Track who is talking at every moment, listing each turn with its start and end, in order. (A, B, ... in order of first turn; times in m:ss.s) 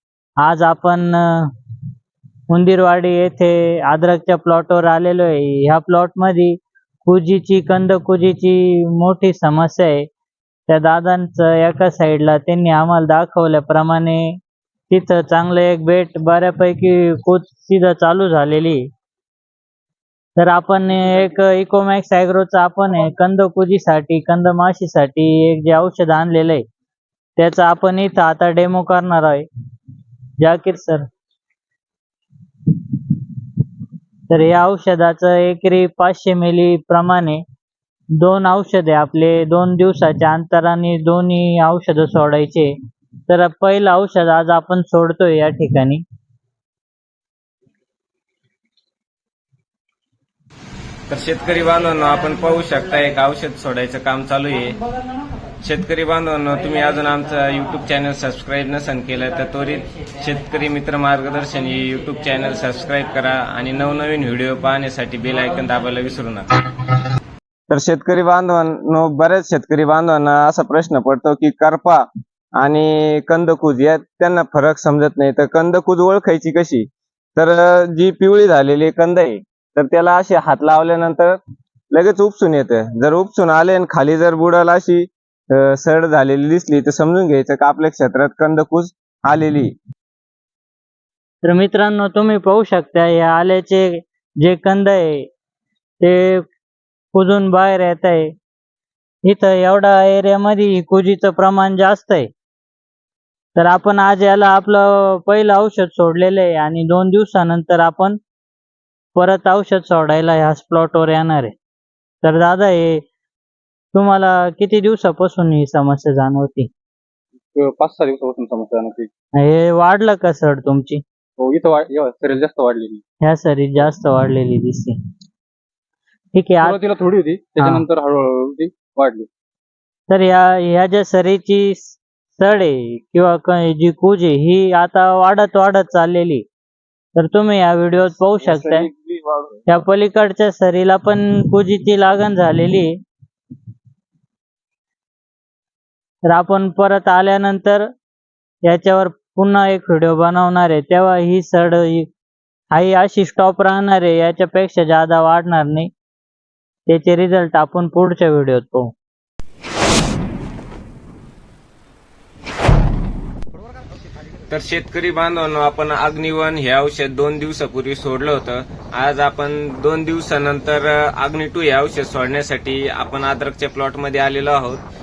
0:00.4-0:01.5 A
0:02.5-0:10.0 A
0:10.7-0:14.4 A
0:14.9-0:18.8 A
0:20.4-0:26.6 A
0:27.4-0:29.4 A
0:30.4-0:31.0 A
0:34.3-0:37.4 A
0:38.2-0:42.7 A
0:43.3-0:46.0 A
0:51.1-0:54.8 B
0:55.6-1:07.0 B
1:07.7-1:12.0 B
1:12.6-1:16.8 B
1:17.4-1:21.4 B
1:21.9-1:29.7 B
1:31.4-1:35.3 A
1:36.0-1:36.5 A
1:37.1-1:38.3 A
1:39.2-1:42.3 A
1:43.6-1:48.2 A
1:49.1-1:51.5 A
1:52.2-1:53.0 A
1:53.9-1:56.7 A
1:57.5-1:59.1 C
1:59.4-2:01.0 A
2:01.4-2:03.0 C
2:03.2-2:04.9 A
2:06.3-2:06.8 A
2:06.6-2:09.3 C
2:10.1-2:16.4 A
2:17.2-2:18.9 A
2:18.5-2:19.4 B
2:19.7-2:22.9 A
2:26.3-2:27.8 A
2:28.6-2:32.1 A
2:32.7-2:35.9 A
2:36.9-2:38.9 A
2:44.5-2:54.8 B